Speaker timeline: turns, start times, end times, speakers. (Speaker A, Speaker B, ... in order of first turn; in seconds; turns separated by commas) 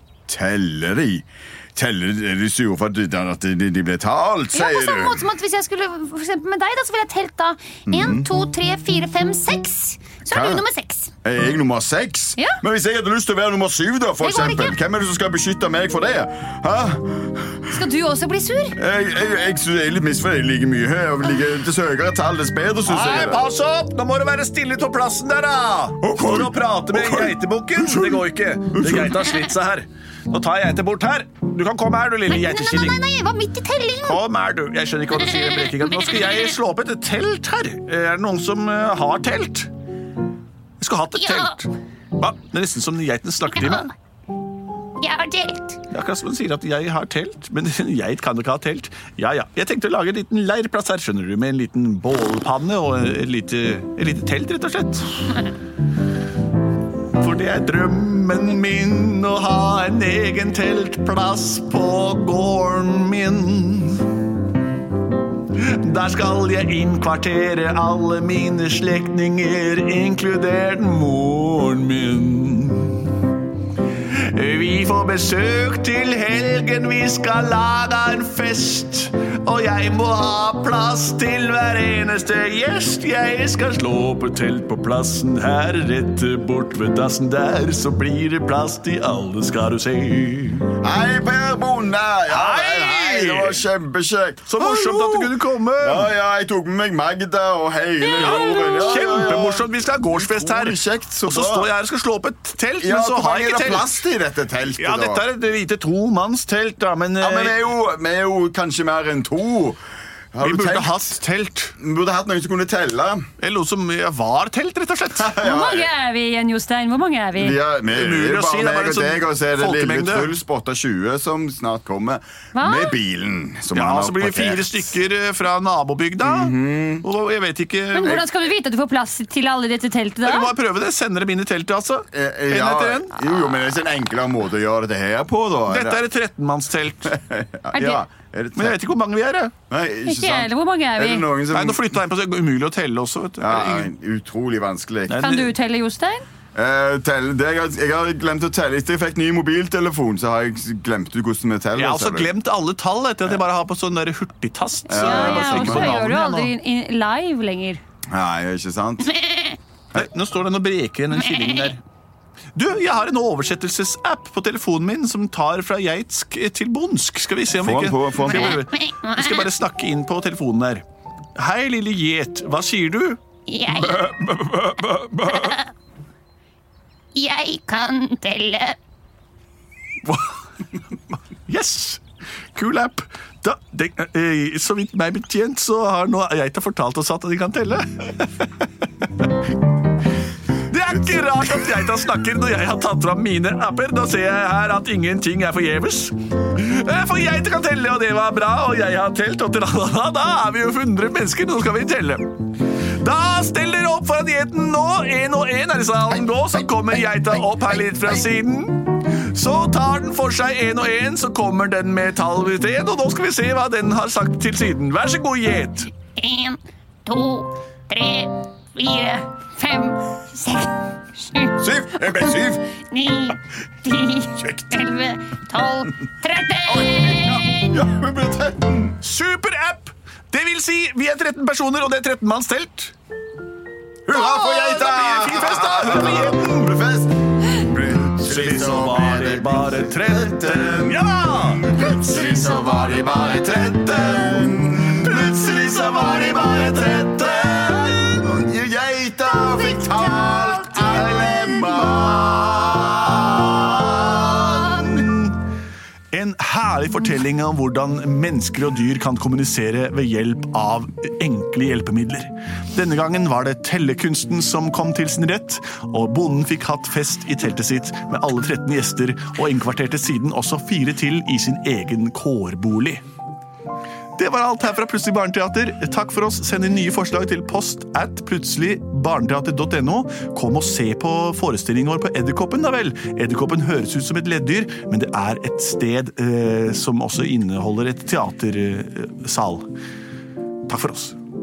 Speaker A: 0.3-5.2, Speaker B: 4.5-11.1, Speaker A: 7.9-8.3, Speaker A: 10.3-10.6, Speaker A: 11.2-17.7, Speaker B: 14.2-14.8, Speaker B: 17.7-18.8, Speaker A: 18.7-23.4, Speaker C: 22.8-33.0, Speaker A: 26.0-29.4, Speaker B: 32.3-34.2, Speaker C: 34.0-39.7, Speaker B: 35.3-36.5, Speaker C: 40.8-43.9, Speaker B: 41.1-41.5, Speaker B: 43.5-43.9, Speaker B: 45.0-45.8, Speaker C: 45.9-55.4, Speaker C: 57.2-64.0, Speaker C: 65.5-73.1, Speaker C: 74.0-90.7, Speaker A: 90.8-101.7, Speaker C: 92.3-93.6, Speaker C: 94.5-96.1, Speaker B: 98.0-99.3, Speaker C: 98.2-104.0, Speaker A: 102.8-105.2, Speaker C: 104.7-107.7, Speaker A: 107.2-109.8, Speaker A: 110.3-111.1, Speaker C: 110.4-111.7, Speaker A: 111.8-113.2, Speaker C: 113.4-115.4, Speaker A: 115.2-115.9, Speaker B: 115.4-117.6, Speaker A: 117.3-124.7, Speaker C: 117.9-120.3, Speaker B: 122.5-123.0, Speaker C: 123.7-128.3, Speaker A: 126.2-127.0, Speaker B: 127.9-130.5, Speaker C: 130.2-133.2, Speaker A: 132.1-136.0, Speaker C: 135.7-137.2, Speaker A: 137.1-138.8, Speaker B: 137.7-138.0, Speaker C: 138.5-139.5, Speaker A: 139.7-141.9, Speaker B: 140.0-141.3, Speaker C: 141.5-143.9, Speaker A: 143.4-145.2, Speaker C: 145.1-145.5, Speaker B: 145.2-146.2, Speaker A: 146.5-152.3, Speaker C: 151.8-156.5, Speaker A: 154.9-156.0, Speaker B: 154.9-157.8, Speaker A: 158.1-159.1, Speaker B: 159.1-159.6, Speaker C: 159.9-161.8, Speaker B: 161.2-161.7, Speaker C: 162.6-170.8, Speaker A: 167.5-168.6, Speaker B: 168.2-169.5, Speaker C: 171.3-175.5, Speaker B: 173.5-174.0, Speaker B: 175.2-175.7, Speaker B: 177.1-178.8, Speaker C: 180.0-180.4, Speaker C: 181.4-182.0, Speaker C: 182.5-189.3, Speaker C: 190.5-202.2, Speaker C: 202.9-215.9, Speaker B: 216.2-221.5, Speaker A: 221.6-222.6, Speaker B: 222.9-227.7, Speaker A: 226.7-229.0, Speaker C: 229.0-232.9, Speaker A: 234.1-241.0, Speaker C: 234.1-236.6, Speaker C: 238.0-241.9, Speaker A: 241.7-254.9, Speaker C: 243.0-248.2, Speaker B: 249.9-251.2, Speaker C: 253.3-255.3, Speaker C: 256.1-273.0, Speaker C: 274.1-289.6, Speaker C: 290.6-291.1